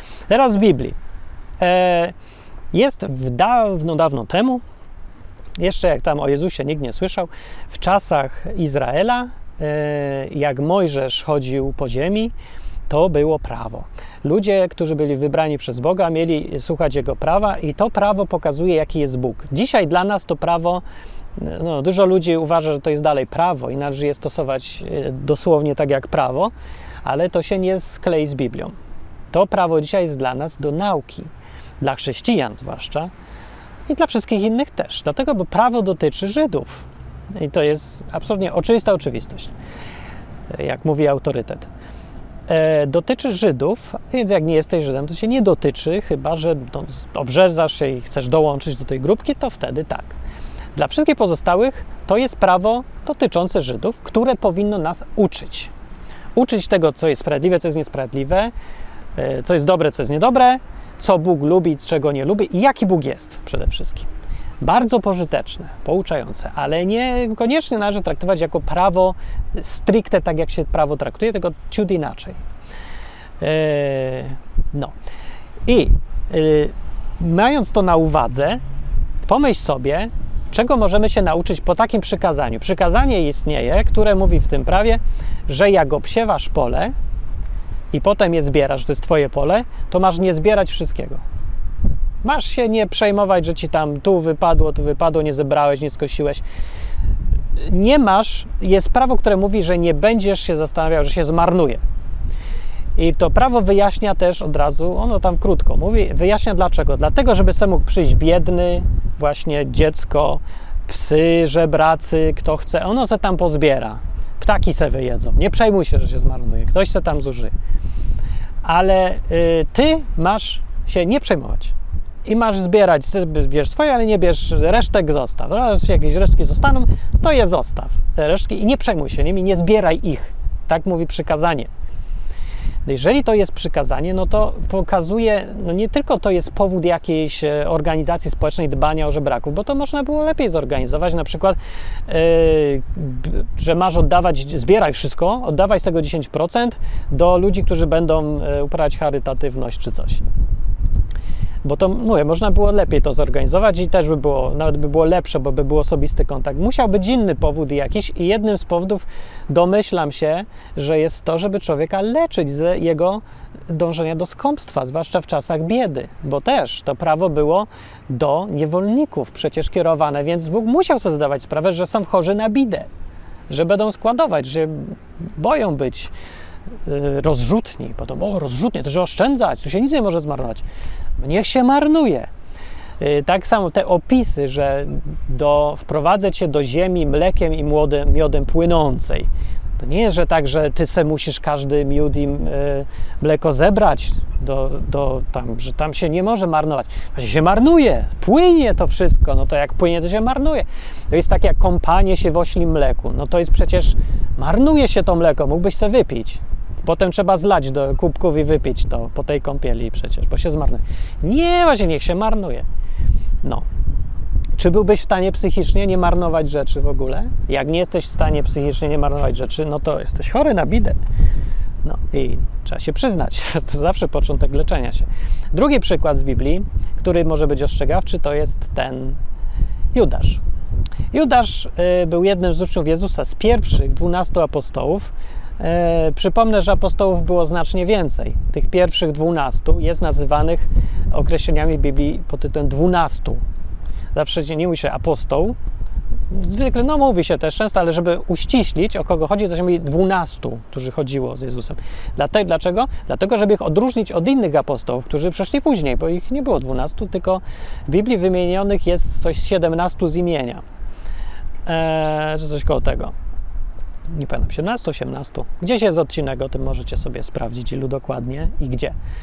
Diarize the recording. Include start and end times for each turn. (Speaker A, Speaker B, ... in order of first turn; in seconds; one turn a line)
Speaker A: 0.3-1.0
Speaker A: 1.6-2.1
Speaker A: 2.7-4.6
Speaker A: 5.6-12.3
Speaker A: 12.9-20.8
Speaker A: 21.4-26.5
Speaker A: 27.0-28.7
Speaker A: 29.3-31.3
Speaker A: 31.8-33.1
Speaker A: 33.9-39.5
Speaker A: 40.5-41.7
Speaker A: 42.5-50.1
Speaker A: 50.8-55.7
Speaker A: 56.3-58.5
Speaker A: 59.1-64.1
Speaker A: 64.6-72.4
Speaker A: 73.4-74.9
Speaker A: 75.7-78.6
Speaker A: 79.2-86.9
Speaker A: 87.9-91.2
Speaker A: 92.2-96.4
Speaker A: 97.6-101.8
Speaker A: 103.0-117.5
Speaker A: 118.6-121.7
Speaker A: 122.2-131.7
Speaker A: 132.8-150.2
Speaker A: 151.6-172.9
Speaker A: 173.5-176.1
Speaker A: 176.8-180.6
Speaker A: 181.2-182.3
Speaker A: 183.0-212.7
Speaker A: 214.5-221.0
Speaker A: 221.8-229.2
Speaker A: 229.9-230.4
Speaker A: 231.1-243.4
Speaker A: 244.1-245.6
Speaker A: 246.3-260.6
Speaker A: 261.6-263.1
Speaker A: 264.1-268.9